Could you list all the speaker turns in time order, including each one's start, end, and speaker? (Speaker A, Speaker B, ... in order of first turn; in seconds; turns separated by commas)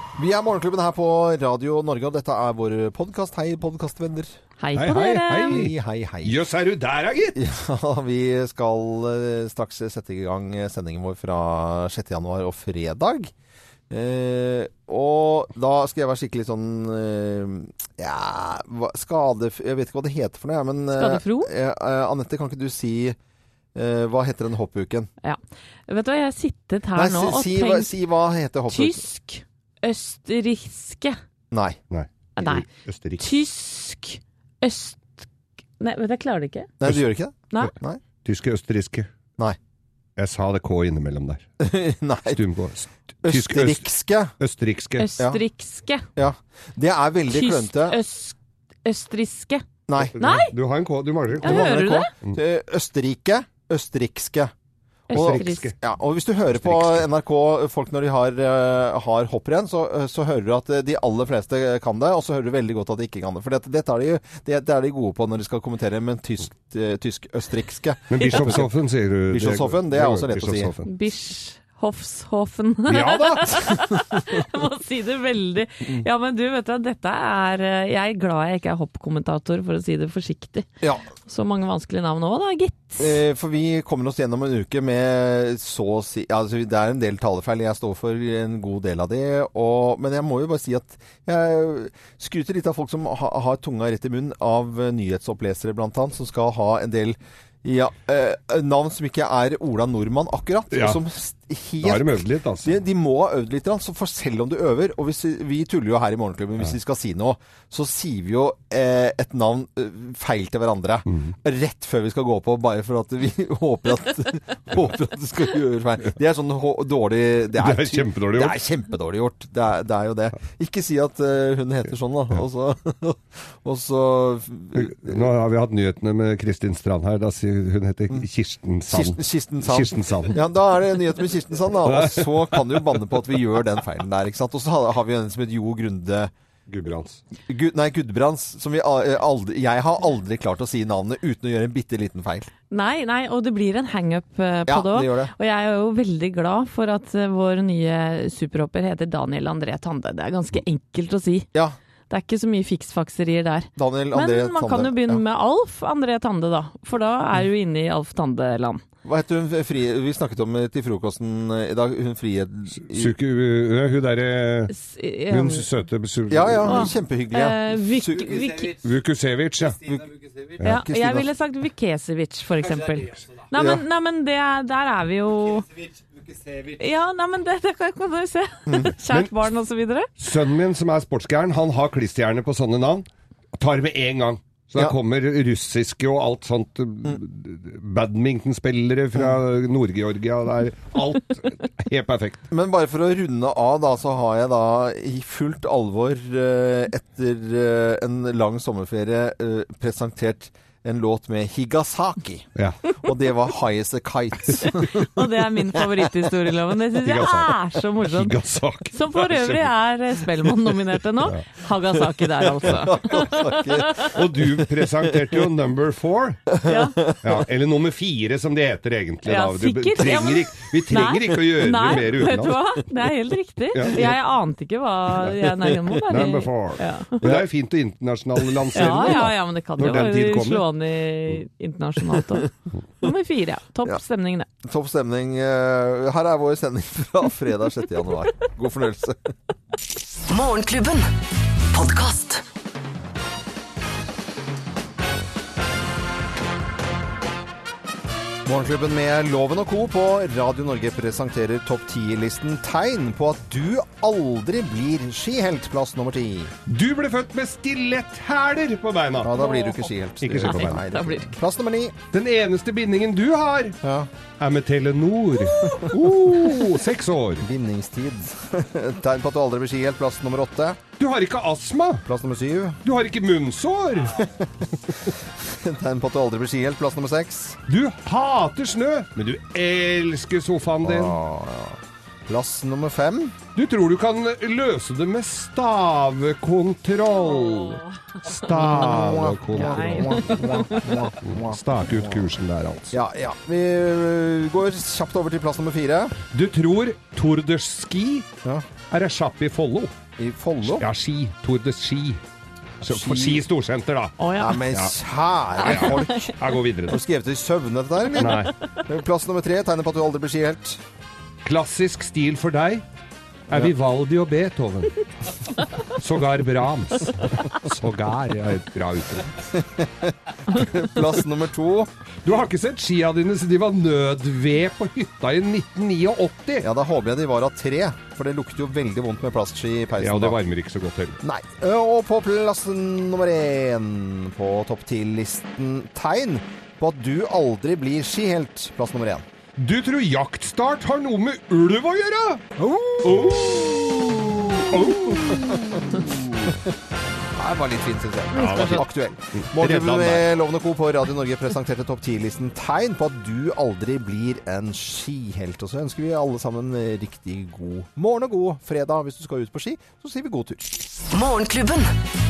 Speaker A: 0.1-4.3, Speaker B: 4.6-5.6, Speaker C: 4.7-5.7, Speaker A: 5.4-6.4, Speaker C: 6.2-7.3, Speaker A: 7.3-13.3, Speaker A: 13.9-23.2, Speaker B: 20.9-21.5, Speaker A: 23.7-25.1, Speaker B: 25.2-27.9, Speaker A: 26.9-29.0, Speaker B: 28.7-31.2, Speaker A: 31.5-31.8, Speaker C: 31.9-33.2, Speaker B: 32.4-32.6, Speaker B: 33.2-35.3, Speaker B: 35.8-36.7, Speaker A: 36.8-38.0, Speaker C: 38.2-39.1, Speaker C: 40.2-41.4, Speaker A: 41.6-42.4, Speaker C: 42.3-45.0, Speaker A: 43.2-44.3, Speaker B: 45.0-46.1, Speaker A: 46.1-48.0, Speaker B: 47.3-49.6, Speaker A: 49.9-50.1, Speaker C: 50.0-51.7, Speaker B: 50.2-50.5, Speaker A: 51.4-54.5, Speaker B: 51.4-52.1, Speaker B: 55.1-55.7, Speaker C: 55.1-55.7, Speaker A: 55.1-68.7, Speaker C: 56.5-57.0, Speaker C: 68.1-70.9, Speaker A: 69.3-70.7, Speaker B: 70.8-80.7, Speaker C: 72.9-73.7, Speaker A: 80.8-81.0, Speaker B: 81.2-83.2, Speaker A: 83.0-125.3, Speaker C: 100.7-101.0, Speaker C: 101.8-102.8, Speaker C: 117.6-118.6, Speaker C: 124.8-130.3, Speaker A: 128.9-136.3, Speaker C: 131.8-133.0, Speaker C: 136.7-137.2, Speaker A: 137.5-142.5, Speaker B: 142.7-151.5, Speaker A: 144.7-145.3, Speaker B: 152.1-158.8, Speaker A: 153.8-155.2, Speaker A: 159.0-163.1, Speaker C: 162.8-164.7, Speaker B: 164.7-165.6, Speaker C: 165.3-166.9, Speaker A: 166.3-168.7, Speaker B: 166.7-168.8, Speaker C: 168.8-169.8, Speaker A: 169.8-171.3, Speaker B: 170.6-175.7, Speaker A: 173.5-173.8, Speaker B: 176.6-180.1, Speaker C: 180.2-192.4, Speaker A: 192.5-202.5, Speaker A: 203.0-206.1, Speaker B: 204.9-208.3, Speaker C: 207.0-209.7, Speaker B: 208.9-214.2, Speaker A: 212.6-214.5, Speaker C: 214.1-216.5, Speaker A: 215.0-215.3, Speaker A: 216.6-217.3, Speaker B: 216.6-217.0, Speaker C: 217.2-222.6, Speaker B: 219.2-227.2, Speaker C: 223.7-224.1, Speaker C: 225.2-230.7, Speaker A: 227.2-227.5, Speaker A: 228.4-229.2, Speaker B: 228.7-232.5, Speaker B: 233.0-234.5, Speaker A: 234.6-239.3, Speaker D: 240.3-241.1, Speaker D: 241.7-242.4, Speaker A: 248.4-256.5, Speaker C: 256.7-259.4, Speaker A: 259.2-262.0, Speaker B: 259.4-259.9, Speaker C: 260.2-260.8, Speaker B: 260.4-261.3, Speaker C: 262.1-263.8, Speaker A: 263.8-264.1, Speaker C: 264.4-267.4, Speaker A: 265.6-266.0, Speaker A: 267.4-270.8, Speaker C: 271.0-272.0, Speaker A: 272.0-272.8, Speaker C: 272.8-274.2, Speaker A: 274.1-277.6, Speaker C: 277.7-281.2, Speaker A: 280.8-283.4, Speaker C: 283.6-290.5, Speaker B: 287.4-287.8, Speaker B: 288.5-291.0, Speaker A: 288.5-292.3, Speaker C: 291.2-293.0, Speaker A: 292.9-296.2, Speaker C: 296.3-298.3, Speaker C: 298.9-299.9, Speaker A: 300.2-300.8, Speaker C: 300.7-302.2, Speaker C: 302.8-304.1, Speaker A: 302.8-303.4, Speaker B: 304.2-304.7, Speaker A: 304.4-306.1, Speaker B: 305.6-306.3, Speaker C: 305.6-307.0, Speaker A: 306.9-310.8, Speaker C: 308.1-308.5, Speaker C: 311.4-312.8, Speaker C: 313.5-315.0, Speaker C: 315.9-319.4, Speaker A: 319.5-321.9, Speaker C: 322.2-326.6, Speaker A: 326.6-330.4, Speaker C: 330.0-331.2, Speaker A: 331.2-339.2, Speaker C: 339.6-345.8, Speaker A: 342.6-343.8, Speaker A: 344.4-346.7, Speaker A: 347.4-360.8, Speaker C: 348.3-350.3, Speaker B: 348.4-348.7, Speaker D: 361.1-361.9